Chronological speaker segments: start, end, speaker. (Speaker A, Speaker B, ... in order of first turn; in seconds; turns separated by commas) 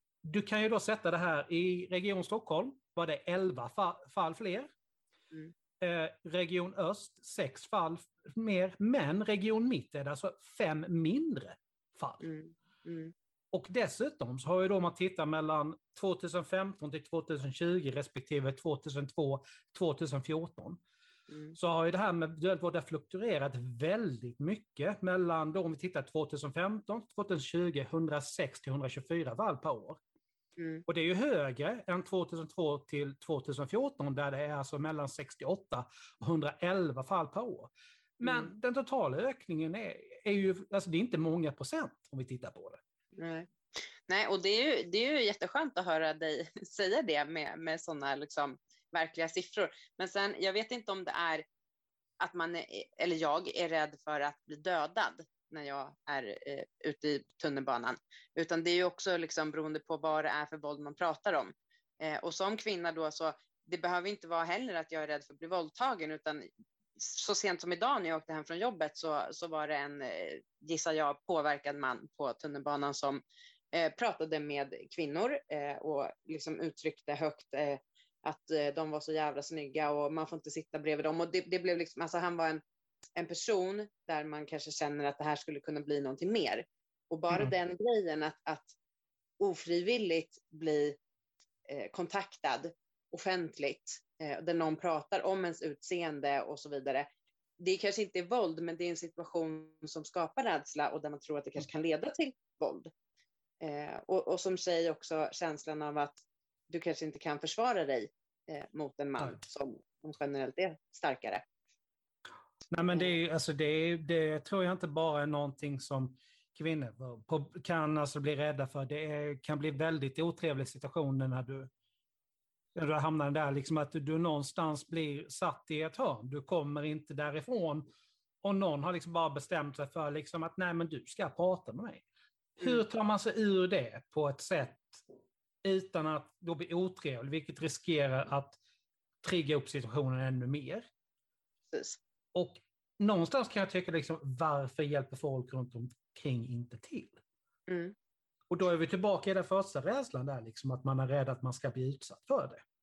Speaker A: 0.2-4.7, Speaker A: 5.8-12.2, Speaker B: 12.2-13.1, Speaker A: 13.5-20.8, Speaker B: 21.3-21.6, Speaker A: 21.6-30.0, Speaker B: 30.6-30.8, Speaker A: 30.9-42.8, Speaker B: 38.2-38.5, Speaker B: 43.1-43.5, Speaker B: 44.1-51.4, Speaker B: 52.2-82.6, Speaker B: 83.2-88.7, Speaker B: 89.4-91.0, Speaker B: 91.7-97.1, Speaker B: 97.6-102.9, Speaker B: 103.6-111.4, Speaker A: 112.7-121.7, Speaker B: 112.9-113.2, Speaker A: 122.7-127.8, Speaker A: 128.4-132.0, Speaker A: 132.6-135.0, Speaker A: 135.6-138.6, Speaker A: 139.2-140.8, Speaker B: 141.7-142.0, Speaker A: 142.3-147.2, Speaker B: 147.7-147.9, Speaker A: 148.5-152.6